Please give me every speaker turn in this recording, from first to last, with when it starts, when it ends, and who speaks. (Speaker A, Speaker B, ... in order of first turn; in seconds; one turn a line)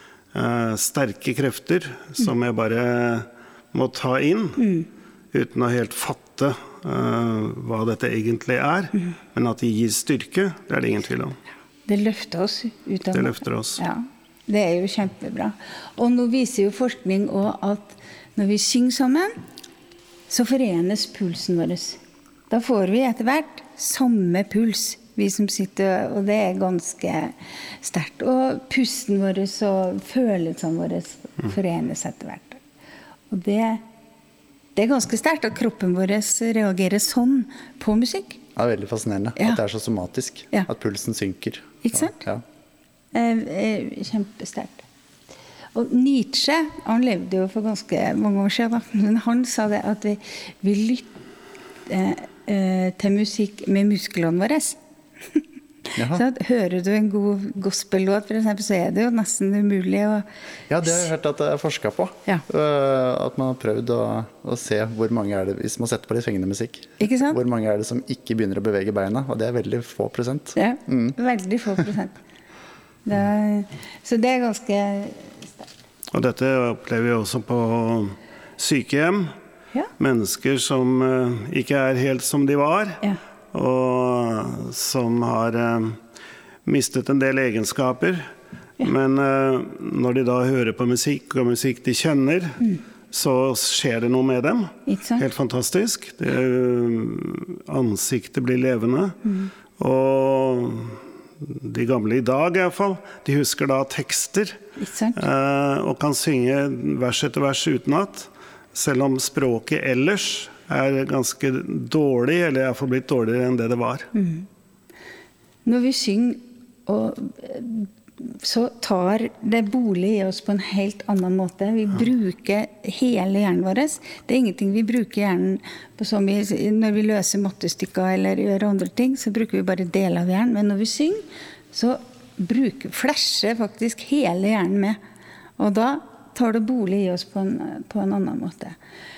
Speaker A: 0.3-4.6
Speaker B: 4.6-4.9
Speaker A: 5.3-11.4
Speaker B: 11.9-19.4
Speaker A: 13.1-13.8
Speaker B: 20.3-32.6
Speaker B: 33.3-33.8
Speaker B: 34.7-38.4
Speaker C: 38.5-42.4
Speaker B: 41.8-42.2
Speaker B: 43.1-44.8
Speaker B: 45.7-51.1
Speaker B: 51.9-54.8
Speaker C: 56.0-56.2
Speaker B: 56.0-60.3
Speaker C: 60.7-71.2
Speaker B: 67.0-67.4
Speaker B: 70.5-72.2
Speaker B: 73.0-75.7
Speaker A: 76.1-79.3
Speaker A: 80.0-86.0
Speaker A: 86.6-88.3
Speaker A: 88.8-99.2
Speaker B: 94.9-95.2
Speaker B: 99.2-99.5
Speaker A: 99.8-104.6
Speaker B: 104.8-105.2
Speaker A: 105.2-114.1
Speaker B: 114.1-114.5
Speaker B: 115.7-135.0
Speaker B: 135.6-138.8